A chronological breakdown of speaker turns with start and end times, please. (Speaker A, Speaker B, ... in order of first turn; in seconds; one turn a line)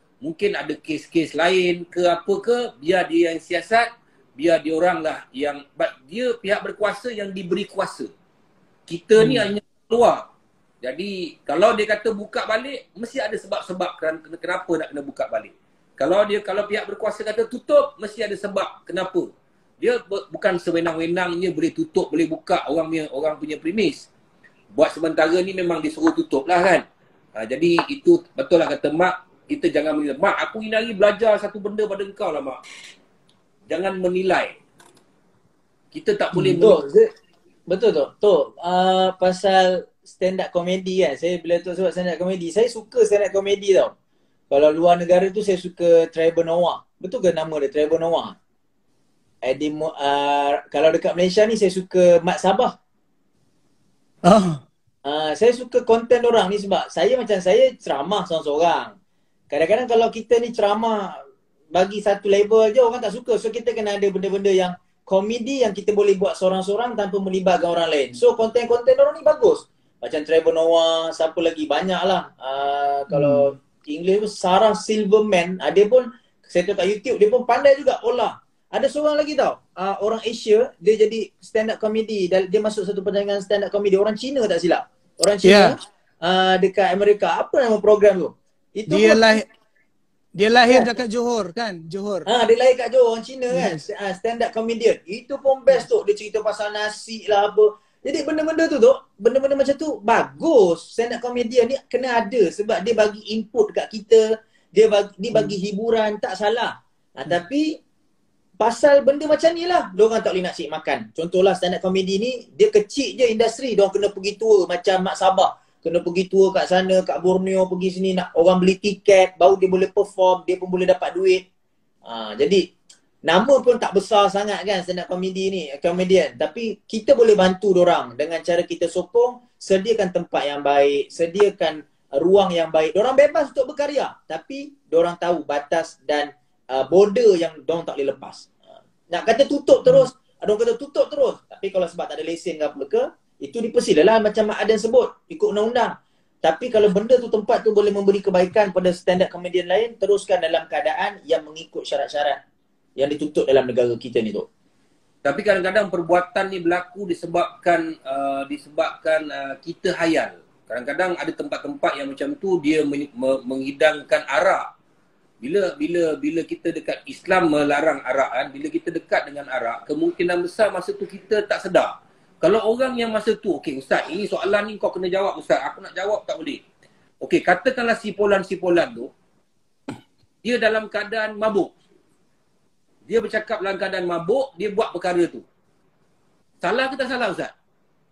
Speaker A: 0.2-8.1
Speaker A: 8.9-10.3
Speaker B: 9.2-9.5
Speaker A: 10.8-19.3
Speaker A: 19.8-24.1
Speaker A: 24.7-26.8
Speaker A: 27.4-32.6
Speaker A: 33.7-34.6
Speaker A: 35.9-36.9
Speaker C: 36.5-37.0
Speaker C: 37.7-43.9
Speaker C: 44.5-48.4
Speaker C: 49.4-52.8
Speaker B: 54.3-54.6
Speaker C: 55.0-59.0
Speaker C: 59.5-61.2
Speaker C: 61.7-89.4
Speaker B: 73.1-73.5
Speaker B: 85.4-85.8
Speaker B: 88.9-89.5
Speaker B: 90.4-92.3
Speaker C: 92.3-107.8
Speaker B: 93.5-93.8
Speaker C: 108.6-121.4
Speaker C: 122.1-122.6
Speaker C: 123.3-138.5
Speaker C: 139.1-152.4
Speaker C: 153.0-154.5
Speaker A: 155.2-164.7
Speaker A: 165.4-176.6
Speaker A: 177.2-179.1
Speaker A: 180.4-181.7
Speaker A: 183.1-185.4
Speaker A: 186.6-187.5